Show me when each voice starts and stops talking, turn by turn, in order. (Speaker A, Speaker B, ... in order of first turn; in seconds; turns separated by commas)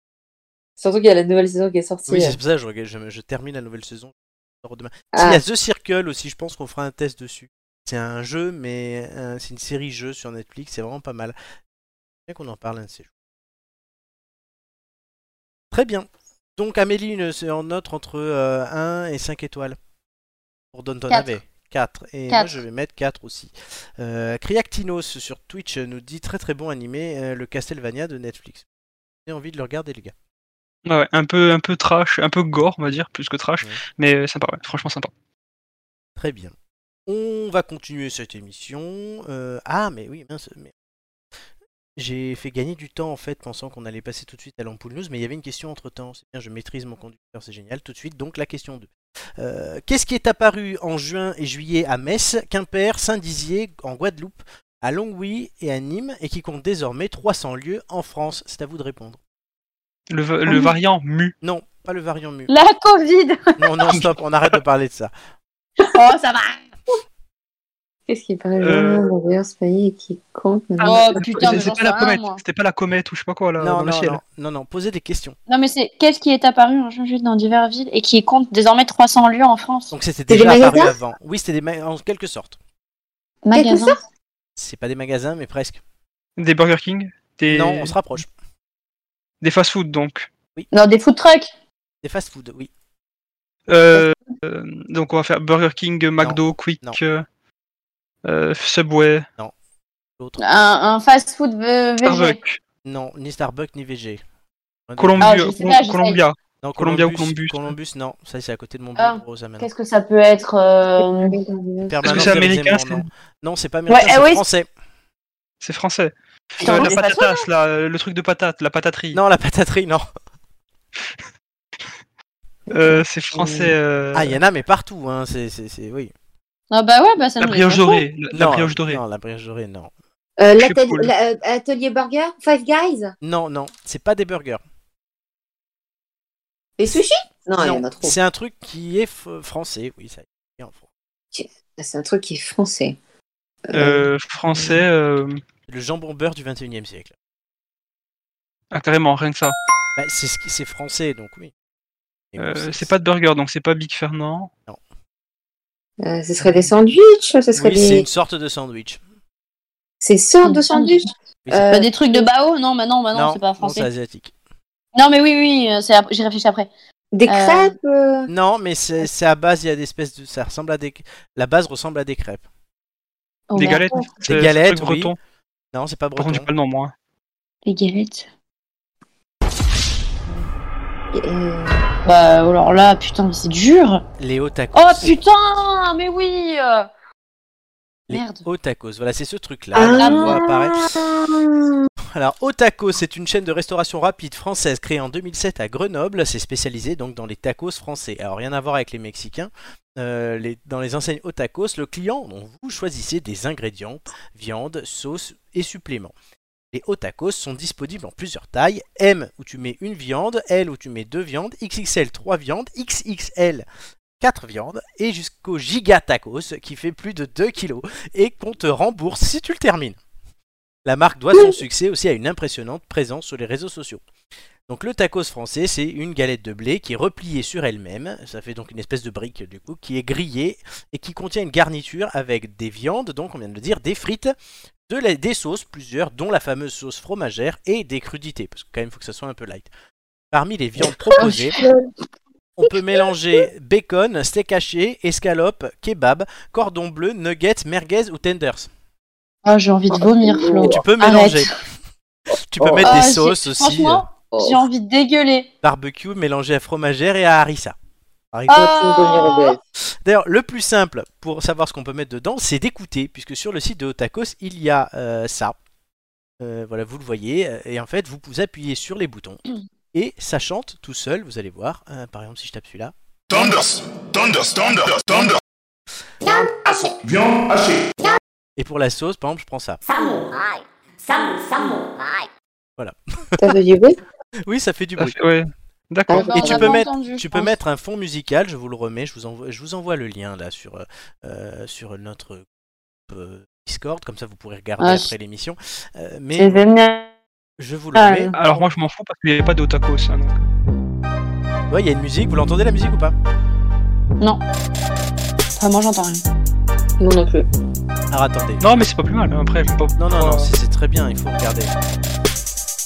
Speaker A: 0.8-2.4, Speaker B: 2.1-11.3, Speaker A: 5.1-5.4, Speaker B: 12.3-13.1, Speaker B: 15.7-19.8, Speaker B: 20.7-28.7, Speaker C: 22.3-22.6, Speaker B: 29.2-30.1, Speaker D: 30.9-35.1, Speaker B: 36.2-36.5, Speaker B: 37.1-40.7, Speaker B: 42.0-59.2, Speaker D: 60.1-61.3, Speaker B: 61.4-62.5, Speaker C: 62.5-63.6, Speaker B: 63.6-65.1, Speaker C: 65.8-66.6, Speaker A: 68.1-71.6, Speaker D: 68.6-69.0, Speaker C: 70.8-72.4, Speaker D: 71.2-74.2, Speaker B: 73.6-75.4, Speaker C: 75.5-79.9, Speaker B: 79.9-82.6, Speaker A: 80.3-80.9, Speaker C: 83.4-84.0, Speaker A: 83.5-84.0, Speaker B: 84.6-85.8, Speaker D: 86.4-88.2, Speaker B: 87.5-88.3, Speaker D: 89.4-90.3, Speaker C: 90.7-91.5, Speaker B: 92.0-92.7, Speaker D: 93.7-97.2, Speaker B: 96.2-97.0, Speaker D: 98.2-99.2, Speaker C: 100.4-102.4, Speaker D: 102.0-102.6, Speaker B: 102.8-104.2, Speaker B: 104.9-105.4, Speaker D: 105.0-107.7, Speaker C: 105.2-106.2, Speaker B: 106.6-109.7, Speaker C: 109.0-111.4, Speaker A: 111.0-112.2, Speaker B: 111.9-114.7, Speaker D: 112.0-113.1, Speaker C: 113.9-114.5, Speaker D: 115.6-119.2, Speaker C: 116.6-117.4, Speaker B: 119.1-120.0, Speaker D: 122.7-124.4, Speaker A: 123.4-123.7, Speaker B: 124.1-126.1, Speaker C: 126.7-128.0, Speaker D: 127.4-129.0, Speaker B: 128.3-129.9, Speaker A: 130.4-133.1, Speaker D: 130.6-131.1, Speaker B: 133.2-134.6, Speaker A: 136.8-138.2, Speaker B: 137.6-140.8, Speaker A: 141.3-143.0, Speaker A: 143.7-144.8, Speaker D: 143.7-145.4, Speaker B: 145.7-147.1, Speaker D: 148.7-149.6, Speaker B: 150.0-151.5, Speaker B: 152.3-152.9, Speaker D: 152.4-154.5, Speaker A: 156.0-158.1, Speaker B: 157.6-159.0, Speaker A: 160.0-162.3, Speaker C: 160.4-161.0, Speaker B: 161.4-161.7, Speaker C: 161.7-163.9, Speaker B: 163.1-164.3, Speaker C: 165.0-166.7, Speaker A: 167.1-168.3, Speaker C: 167.3-167.8, Speaker B: 168.3-172.4, Speaker C: 173.5-174.1, Speaker D: 173.6-175.2, Speaker B: 174.3-175.1, Speaker B: 175.7-176.5, Speaker D: 176.2-176.9, Speaker C: 177.7-178.3, Speaker A: 181.1-181.8, Speaker C: 182.1-184.0, Speaker B: 184.2-185.2, Speaker C: 184.7-186.9, Speaker B: 188.1-190.9, Speaker C: 188.1-188.4, Speaker A: 189.7-191.9, Speaker C: 190.0-190.4, Speaker B: 192.1-206.1, Speaker B: 206.7-213.7, Speaker B: 214.2-220.0, Speaker B: 220.8-224.0, Speaker B: 224.7-234.3, Speaker B: 234.9-239.7, Speaker B: 240.3-241.6, Speaker C: 241.2-241.7, Speaker A: 241.2-241.7, Speaker B: 242.6-248.7, Speaker C: 249.5-251.5, Speaker A: 250.2-250.8, Speaker B: 250.6-251.6, Speaker B: 252.4-254.1, Speaker A: 252.6-253.0, Speaker C: 252.8-255.5, Speaker A: 254.3-254.7, Speaker B: 255.6-257.8, Speaker B: 258.3-258.8, Speaker C: 258.5-259.6, Speaker A: 258.5-259.6, Speaker B: 260.0-265.6, Speaker B: 266.4-269.4, Speaker B: 269.9-272.9, Speaker E: 273.3-275.4, Speaker E: 276.5-277.9, Speaker B: 278.6-279.9, Speaker B: 282.8-283.6, Speaker A: 283.4-284.0, Speaker B: 284.4-285.2, Speaker D: 285.0-286.4, Speaker A: 286.1-286.8, Speaker C: 286.2-287.6, Speaker B: 286.4-292.5, Speaker B: 293.1-296.6, Speaker C: 294.8-295.1, Speaker C: 296.4-297.1, Speaker B: 297.6-298.4, Speaker C: 297.9-298.4, Speaker D: 298.4-300.5, Speaker B: 301.7-303.1, Speaker C: 305.6-306.2, Speaker A: 307.0-307.5, Speaker B: 308.1-308.6, Speaker D: 308.6-310.5, Speaker B: 310.0-311.7